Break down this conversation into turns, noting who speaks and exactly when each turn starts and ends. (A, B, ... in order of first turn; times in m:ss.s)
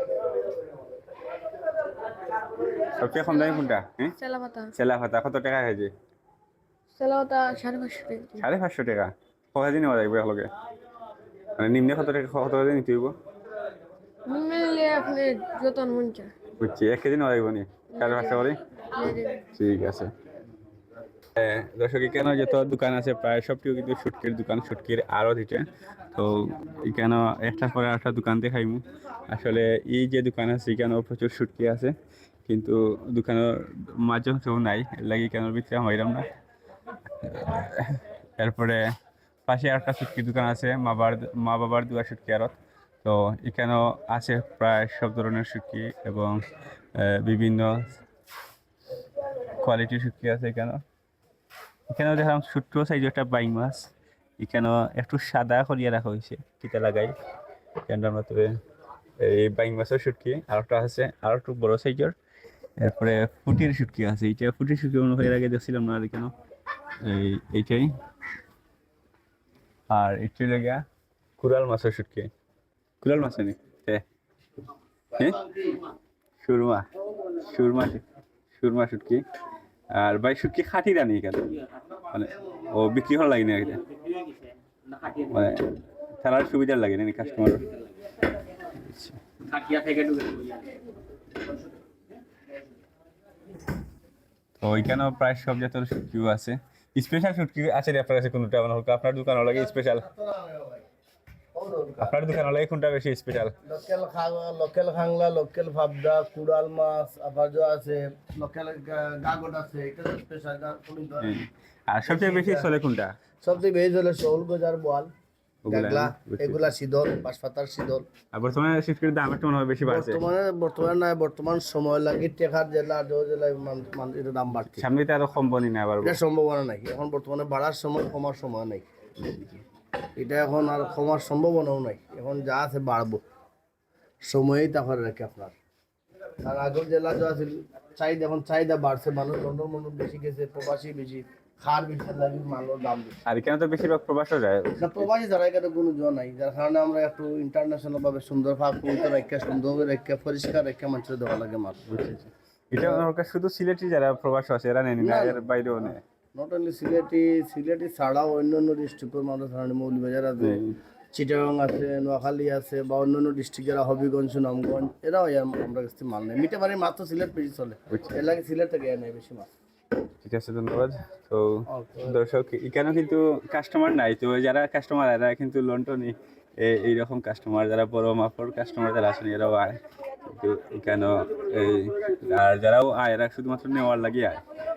0:03.0-0:04.1 A
0:03.2-0:03.6 B
0:04.2-0:04.7 B
0:04.8-0:05.9 A
0:07.0-0:08.5 B
0:08.4-0:10.5 A
0:11.6-0:13.1 A
0:14.3-0:16.3 B
0:16.6-0:18.6 A
0:17.9-0:19.4 B
0:19.5-0:20.1 A
0:21.4-0:31.9 A
0:32.5-0:36.2 A
0:37.2-0:38.8 A
0:39.5-0:46.4 A
0:47.0-0:47.9 A
0:49.6-0:50.8 A
0:51.9-0:53.9 A
0:54.4-0:57.1 A
0:57.9-0:58.5 A
0:59.2-1:02.1 A
1:02.8-1:06.3 A
1:07.0-1:07.9 A
1:09.9-1:10.8 A
1:11.4-1:12.3 A
1:13.0-1:14.0 A
1:16.4-1:16.9 A
1:17.4-1:18.0 A
1:18.6-1:19.2 A
1:20.0-1:21.6 A
1:22.1-1:23.8 A
1:25.3-1:25.6 A
1:26.2-1:27.7 A
1:28.8-1:29.2 A
1:34.6-1:40.0 A
1:40.0-1:40.8 C
1:41.5-1:42.1 C
1:42.0-1:43.5 A
1:43.7-1:51.3 C
1:51.2-1:53.1 A
1:52.1-1:52.7 C
1:53.4-1:55.1 C
1:55.7-1:56.7 A
1:55.7-1:58.1 C
1:58.3-2:00.2 A
1:59.8-2:04.9 C
2:04.8-2:06.2 A
2:06.0-2:08.9 C
2:09.2-2:09.6 A
2:10.2-2:13.2 C
2:14.2-2:15.6 C
2:16.4-2:23.2 C
2:23.3-2:25.1 A
2:24.8-2:31.8 C
2:31.9-2:36.0 A
2:32.8-2:33.0 C
2:35.0-2:40.6 C
2:40.4-2:40.8 A
2:41.1-2:49.5 C
2:47.9-2:48.2 A
2:50.2-3:04.4 A
2:51.7-2:52.1 C